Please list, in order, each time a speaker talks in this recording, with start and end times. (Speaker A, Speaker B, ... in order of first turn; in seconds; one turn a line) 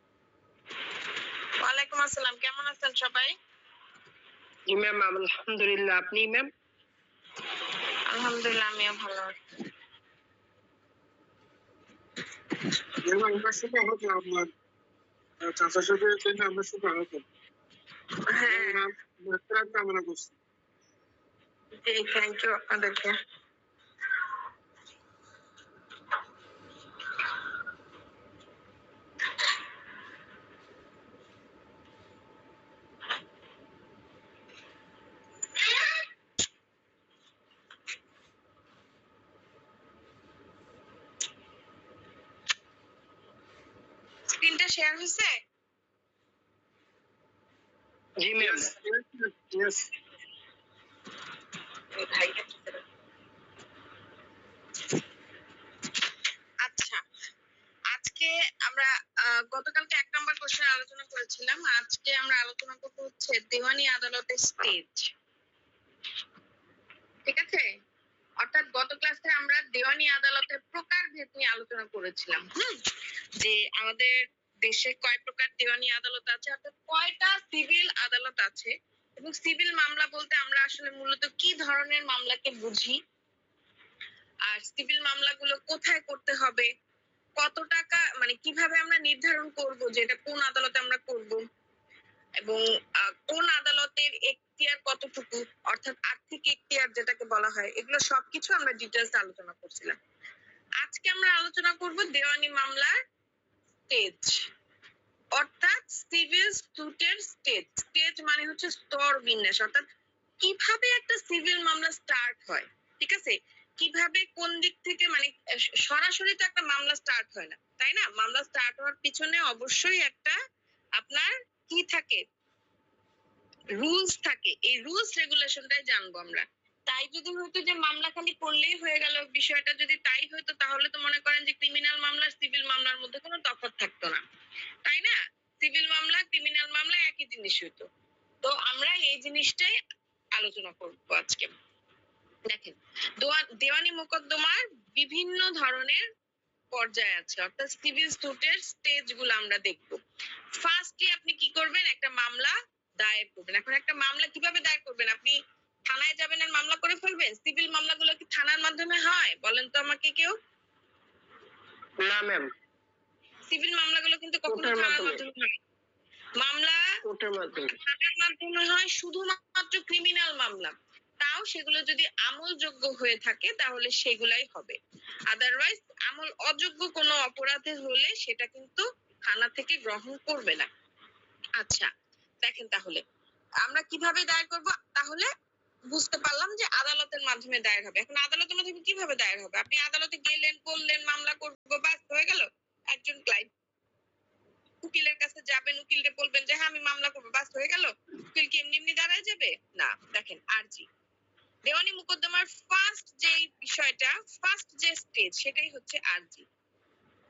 Speaker A: 1.6-3.3
Speaker B: 4.7-6.5
Speaker A: 8.1-9.4
Speaker C: 13.0-14.5
Speaker C: 15.4-17.2
Speaker A: 18.3-18.8
Speaker C: 18.4-20.3
Speaker A: 21.8-23.2
Speaker A: 44.3-45.3
Speaker B: 48.2-48.7
Speaker C: 48.4-49.9
Speaker A: 52.0-52.8
Speaker A: 56.6-57.0
Speaker A: 57.9-65.1
Speaker A: 67.3-67.7
Speaker A: 68.4-72.8
Speaker A: 73.4-83.0
Speaker A: 84.5-86.7
Speaker A: 87.4-91.4
Speaker A: 92.4-100.0
Speaker A: 100.8-103.0
Speaker A: 103.9-104.5
Speaker A: 105.3-109.9
Speaker A: 110.4-115.3
Speaker A: 115.8-120.3
Speaker A: 121.0-122.2
Speaker A: 123.8-134.2
Speaker A: 134.8-137.9
Speaker A: 138.4-139.8
Speaker A: 140.3-141.5
Speaker A: 142.5-146.1
Speaker A: 146.7-150.0
Speaker A: 150.6-155.4
Speaker A: 155.9-160.3
Speaker B: 162.0-162.5
Speaker A: 163.5-165.6
Speaker B: 164.5-165.2
Speaker A: 166.4-166.9
Speaker B: 167.1-167.8
Speaker A: 167.7-174.8
Speaker A: 175.3-180.7
Speaker A: 181.6-181.9
Speaker A: 182.4-183.0
Speaker A: 183.6-185.3
Speaker A: 185.9-193.5
Speaker A: 194.8-200.8
Speaker A: 201.7-206.4